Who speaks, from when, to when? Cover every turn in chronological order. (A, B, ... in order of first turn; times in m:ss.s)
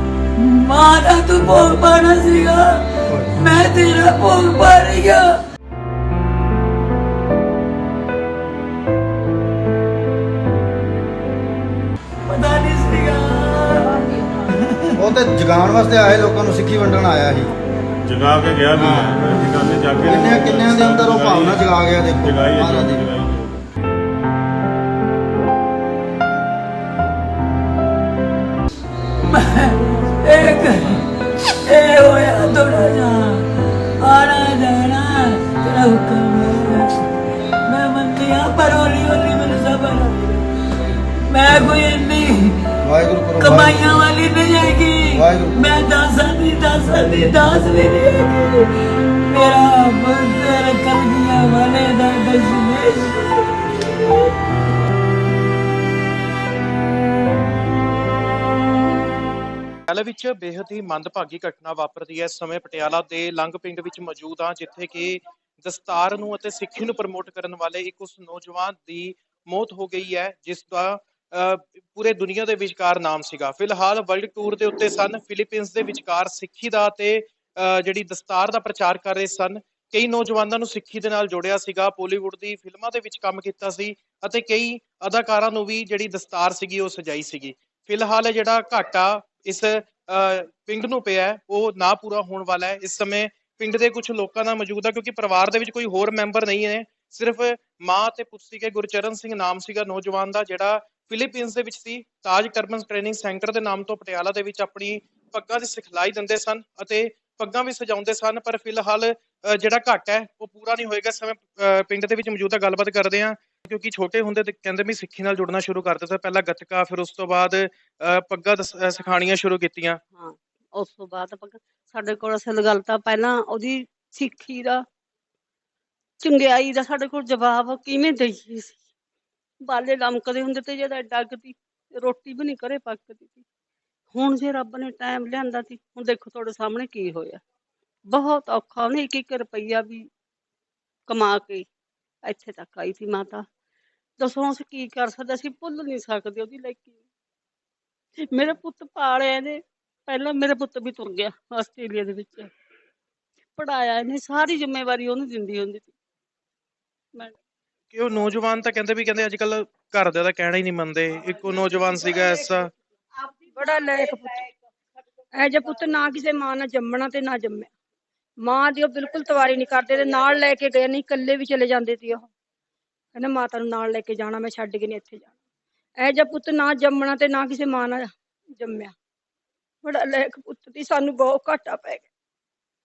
0:00.4-0:05.4 A
0:12.3-0:14.1 A
0:15.0-0:17.5 B
0:18.0-0:21.6 C
0:18.8-0:19.0 B
0:20.0-0:23.0 B
0:22.2-0:23.6 C
0:29.3-0:33.5 A
0:34.0-0:37.0 A
0:37.6-0:40.4 A
0:41.3-0:42.6 A
0:42.8-0:43.9 B
0:43.4-0:54.3 A
0:45.2-0:45.6 B
0:59.9-2:00.0 D
2:00.2-2:04.8 E
2:06.2-2:08.8 E
2:09.6-2:13.4 E
2:14.1-2:17.4 E
2:18.1-2:20.1 E
2:21.1-2:21.7 E
2:22.2-2:23.5 E
2:24.2-2:27.0 E
2:28.2-2:32.5 E
2:33.5-2:35.9 E
2:37.9-2:42.7 D
2:43.5-2:44.4 F
2:45.3-2:47.7 F
2:48.4-2:52.3 F
2:53.1-2:55.3 F
2:56.0-2:58.9 F
2:59.8-3:02.1 F